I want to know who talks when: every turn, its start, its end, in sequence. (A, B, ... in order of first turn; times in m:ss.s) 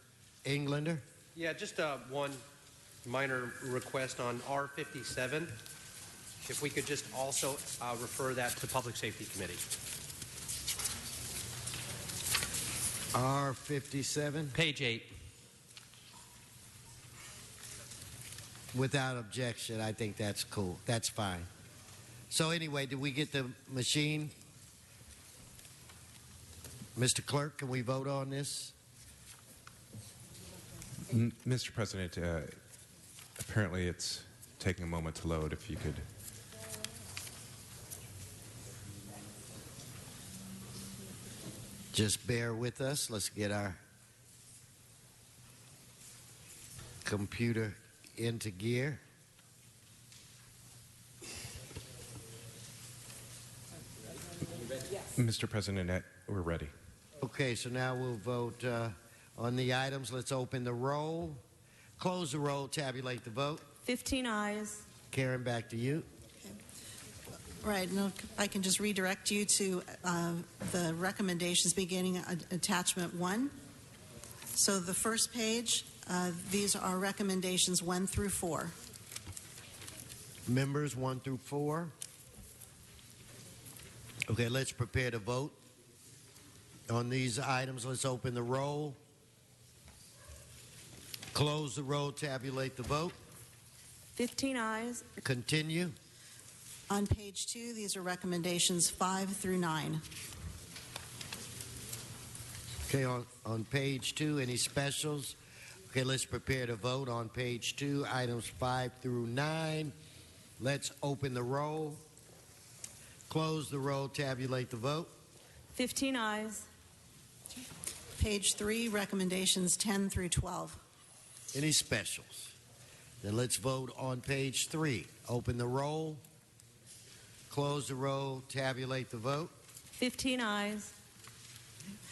0:00.4-0:01.0 A
0:01.4-0:02.4 B
0:03.0-0:05.6 B
0:06.4-0:09.6 B
0:13.1-0:14.6 A
0:14.5-0:15.1 B
0:18.7-0:21.5 A
0:22.3-0:24.3 A
0:27.0-0:28.7 A
0:31.1-0:32.5 C
0:33.4-0:36.0 C
0:41.9-0:43.8 A
0:47.0-0:49.0 A
0:55.1-0:56.7 C
0:57.2-1:01.4 A
1:02.0-1:03.6 A
1:03.8-1:04.8 D
1:05.1-1:06.1 A
1:07.6-1:13.5 E
1:14.5-1:18.7 E
1:20.5-1:21.9 A
1:24.3-1:25.5 A
1:26.9-1:29.0 A
1:31.3-1:33.1 A
1:34.2-1:35.1 D
1:35.2-1:35.9 A
1:36.9-1:40.0 E
1:42.9-1:45.4 A
1:45.9-1:49.9 A
1:50.6-1:52.0 A
1:53.3-1:55.1 A
1:55.7-1:56.6 D
1:58.2-2:00.8 E
2:01.5-2:02.5 A
2:03.2-2:06.2 A
2:07.5-2:09.5 A
2:10.0-2:10.9 D